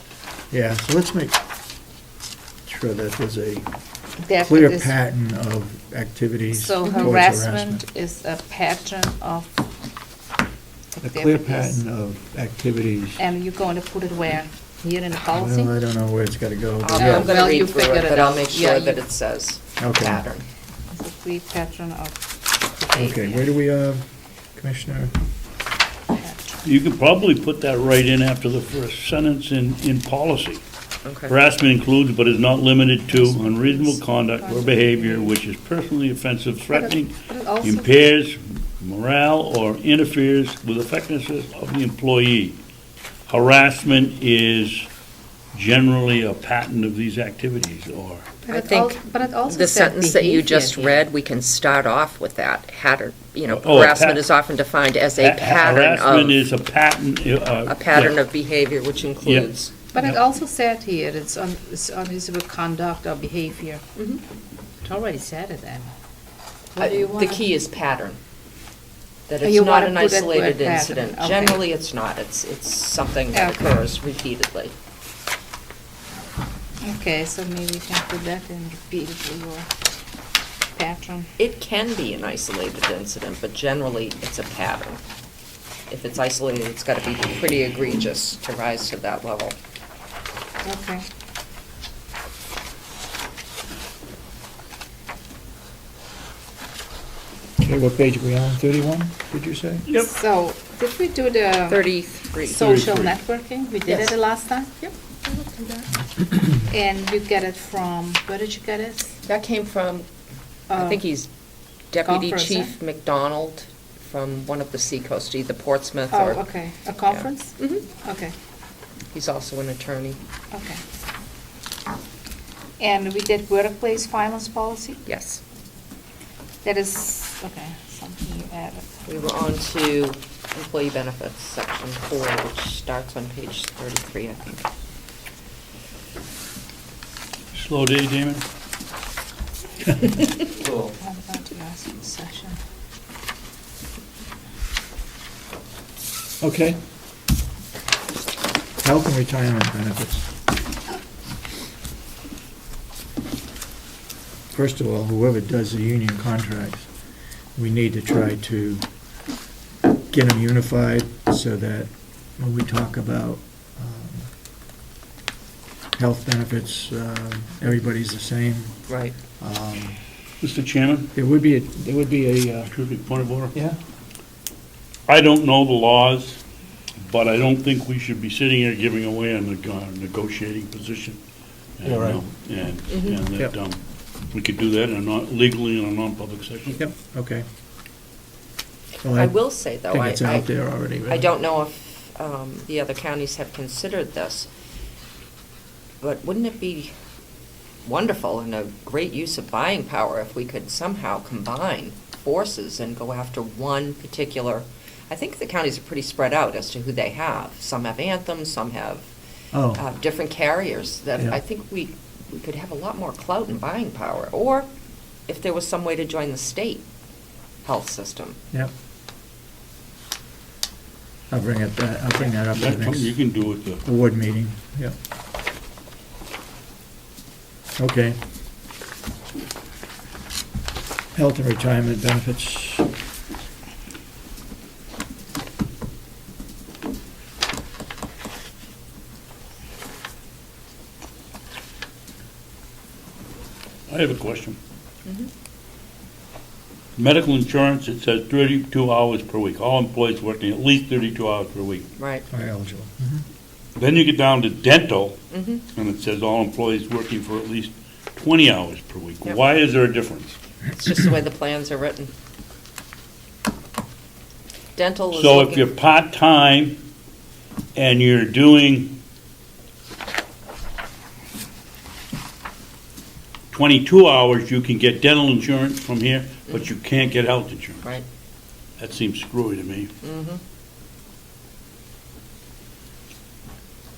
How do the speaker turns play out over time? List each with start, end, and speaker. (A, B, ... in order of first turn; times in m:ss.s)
0:00.5-0:01.4 A
0:02.6-0:03.7 A
0:04.2-0:04.9 B
0:04.4-0:07.8 A
0:06.5-0:09.6 B
0:06.8-0:07.1 C
0:10.9-0:11.8 B
0:11.0-0:13.2 A
0:13.2-0:15.7 B
0:15.3-0:17.4 A
0:16.8-0:20.4 C
0:16.9-0:19.0 B
0:19.8-0:20.2 A
0:20.9-0:23.5 B
0:22.9-0:24.0 A
0:24.5-0:25.1 A
0:26.1-0:26.6 B
0:26.6-0:30.6 D
0:31.0-0:31.4 C
0:31.3-0:42.6 D
0:33.1-0:35.3 B
0:36.7-0:38.0 B
0:43.3-0:44.9 D
0:45.5-0:48.3 D
0:48.4-0:51.0 B
0:48.5-0:56.4 C
0:53.5-0:54.2 D
0:55.2-0:58.2 D
0:57.7-0:59.7 C
0:59.2-1:00.2 D
0:59.9-1:03.8 B
1:04.0-1:04.2 C
1:04.8-1:05.9 B
1:06.8-1:07.4 B
1:06.8-1:08.2 C
1:09.3-1:14.7 C
1:09.4-1:11.6 B
1:13.3-1:13.8 B
1:16.8-1:19.7 B
1:20.7-1:21.3 B
1:21.4-1:25.0 C
1:25.9-1:29.6 C
1:30.6-1:31.0 B
1:37.6-1:39.8 A
1:39.9-1:40.1 D
1:39.9-1:44.7 B
1:41.7-1:42.8 C
1:42.6-1:43.2 D
1:43.8-1:44.2 C
1:44.8-1:45.9 C
1:46.7-1:49.1 B
1:49.2-1:50.1 C
1:50.7-1:51.0 B
1:50.7-1:51.3 C
1:51.9-1:56.5 C
1:52.0-1:52.7 B
1:56.1-1:58.3 B
1:57.0-1:57.8 C
1:59.1-2:00.2 C
2:00.5-2:00.8 B
2:02.8-2:05.0 B
2:05.0-2:05.4 C
2:06.6-2:08.8 B
2:09.0-2:14.6 C
2:17.5-2:18.4 D
2:21.0-2:22.6 B
2:26.4-2:26.8 A
2:28.8-2:30.3 A
2:34.5-2:36.9 A
2:37.6-2:38.8 A
2:40.1-2:44.3 A
2:46.0-2:48.9 A
2:48.9-2:49.1 C
2:49.4-2:50.0 A
2:50.4-2:51.1 D
2:51.1-2:52.7 A
2:52.7-2:53.5 D
2:55.1-2:56.4 D
2:57.0-3:01.2 D
3:01.8-3:06.8 D
3:01.8-3:02.2 A
3:02.9-3:03.2 C
3:06.7-3:07.4 A
3:09.0-3:11.3 A
3:09.1-3:10.5 C
3:11.0-3:14.5 C
3:16.0-3:16.9 C
3:17.8-3:29.1 C
3:29.5-3:29.8 A
3:29.7-3:34.7 C
3:35.3-3:36.8 C
3:37.6-3:38.4 C
3:41.3-3:44.9 A
3:42.5-3:43.8 D
3:47.8-3:48.2 A
3:51.1-3:52.9 A
4:03.9-4:04.6 D
4:05.0-4:05.3 C
4:07.0-4:11.9 D
4:12.0-4:12.2 C
4:12.3-4:13.2 A
4:13.7-4:20.4 D
4:15.3-4:15.6 C
4:20.7-4:22.1 C
4:24.8-4:25.7 C
4:25.1-4:26.8 D
4:27.7-4:29.0 D
4:33.5-4:37.8 D
4:38.8-4:39.9 D
4:40.0-4:40.4 C